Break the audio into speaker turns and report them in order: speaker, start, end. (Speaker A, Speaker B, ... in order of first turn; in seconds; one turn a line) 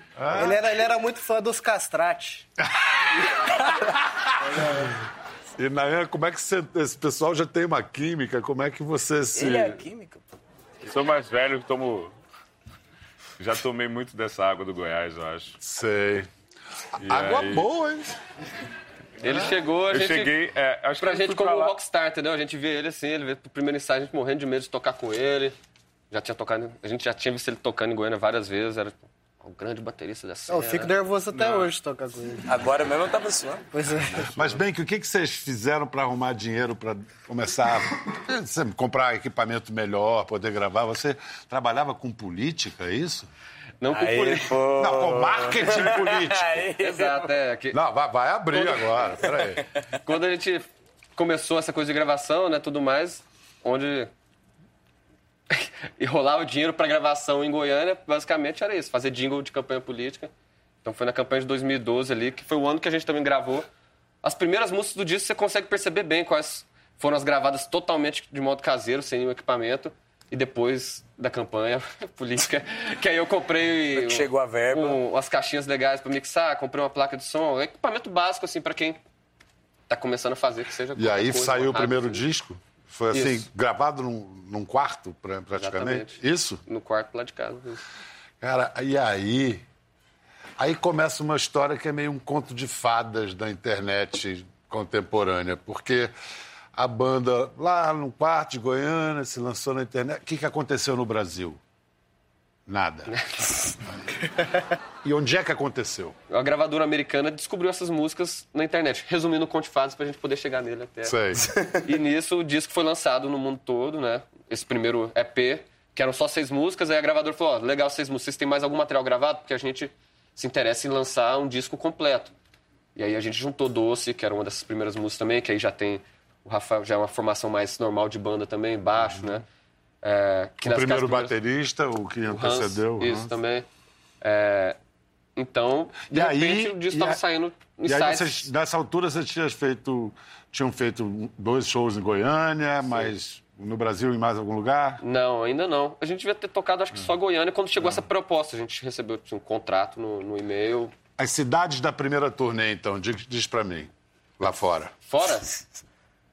Speaker A: 0.2-0.6
Speaker B: 0.3-2.5
Speaker A: 2.8-3.3
Speaker A: 3.8-4.8
Speaker B: 4.5-4.9
Speaker A: 5.6-9.8
Speaker C: 9.3-10.2
Speaker D: 10.8-12.1
Speaker D: 13.4-15.6
Speaker A: 15.6-16.3
Speaker A: 17.0-18.2
Speaker D: 17.0-17.7
Speaker E: 19.2-20.4
Speaker D: 19.2-21.7
Speaker E: 21.0-25.6
Speaker E: 26.1-30.9
Speaker B: 30.5-32.5
Speaker D: 31.4-31.7
Speaker C: 32.5-33.7
Speaker B: 33.7-34.5
Speaker A: 34.3-43.3
Speaker E: 43.8-44.6
Speaker C: 43.9-47.3
Speaker A: 44.8-46.7
Speaker E: 46.8-47.8
Speaker A: 47.7-49.6
Speaker E: 48.5-49.3
Speaker E: 49.9-54.1
Speaker E: 55.5-60.3
Speaker E: 60.8-63.7
Speaker E: 64.2-79.0
Speaker C: 73.9-75.0
Speaker E: 79.9-82.2
Speaker A: 81.0-86.6
Speaker E: 83.1-83.4
Speaker E: 85.6-87.8
Speaker A: 88.4-89.6
Speaker A: 90.6-96.1
Speaker A: 96.7-101.6
Speaker A: 102.7-103.2
Speaker E: 103.1-103.7
Speaker A: 105.0-106.2
Speaker E: 106.3-122.3
Speaker A: 111.0-111.5
Speaker E: 123.0-129.4
Speaker E: 130.0-131.3
Speaker A: 130.6-133.3
Speaker E: 132.3-133.7
Speaker E: 134.2-134.8
Speaker E: 135.4-138.5
Speaker A: 136.1-137.2
Speaker A: 137.9-145.0
Speaker E: 145.0-150.9
Speaker A: 151.2-154.9
Speaker E: 155.1-155.7